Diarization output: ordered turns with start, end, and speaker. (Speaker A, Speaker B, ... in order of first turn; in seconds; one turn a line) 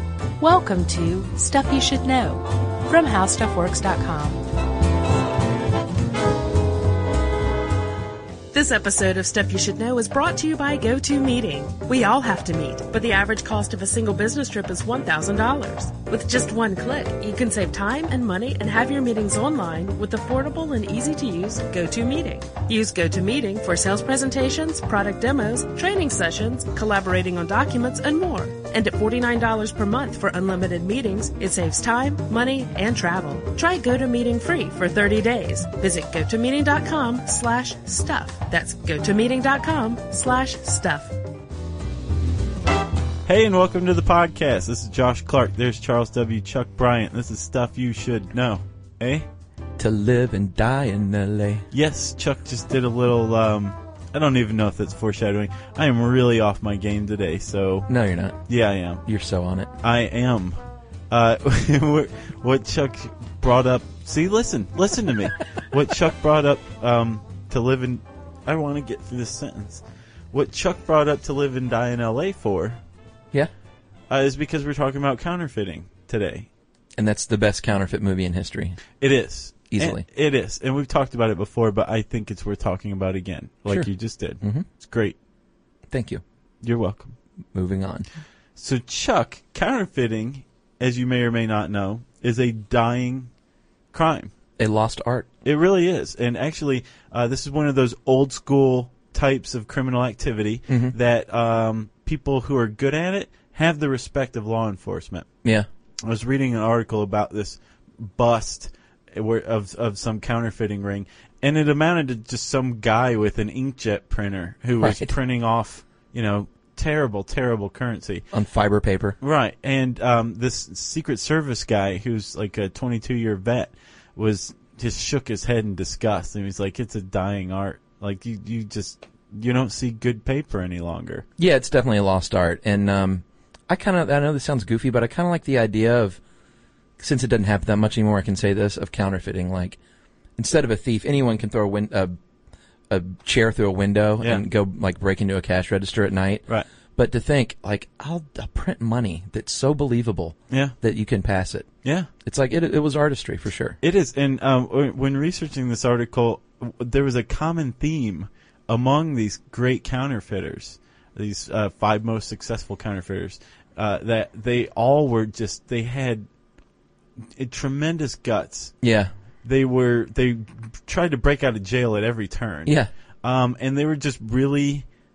Speaker A: 0.4-4.4
Speaker A: 8.5-41.1
Speaker B: 43.2-49.2
Speaker C: 49.8-51.7
Speaker B: 51.7-57.9
Speaker C: 57.9-58.4
Speaker B: 58.5-59.0
Speaker C: 59.0-59.7
Speaker B: 59.8-60.6
Speaker B: 61.1-72.8
Speaker B: 74.1-76.5
Speaker C: 77.0-78.8
Speaker B: 79.0-85.2
Speaker C: 79.7-80.0
Speaker C: 84.4-84.7
Speaker C: 85.9-86.2
Speaker B: 86.6-87.1
Speaker C: 87.5-88.0
Speaker B: 88.5-93.3
Speaker B: 93.9-94.3
Speaker C: 94.6-95.3
Speaker B: 95.4-105.3
Speaker C: 100.7-100.9
Speaker B: 106.0-118.2
Speaker C: 114.8-115.1
Speaker C: 118.3-119.2
Speaker B: 119.2-131.2
Speaker C: 131.4-136.2
Speaker C: 137.0-139.8
Speaker C: 140.4-142.2
Speaker C: 142.9-151.7
Speaker B: 150.5-150.7
Speaker B: 151.8-152.1
Speaker C: 152.2-153.8
Speaker B: 153.8-166.3
Speaker B: 167.3-168.8
Speaker C: 168.8-169.1
Speaker B: 169.4-174.8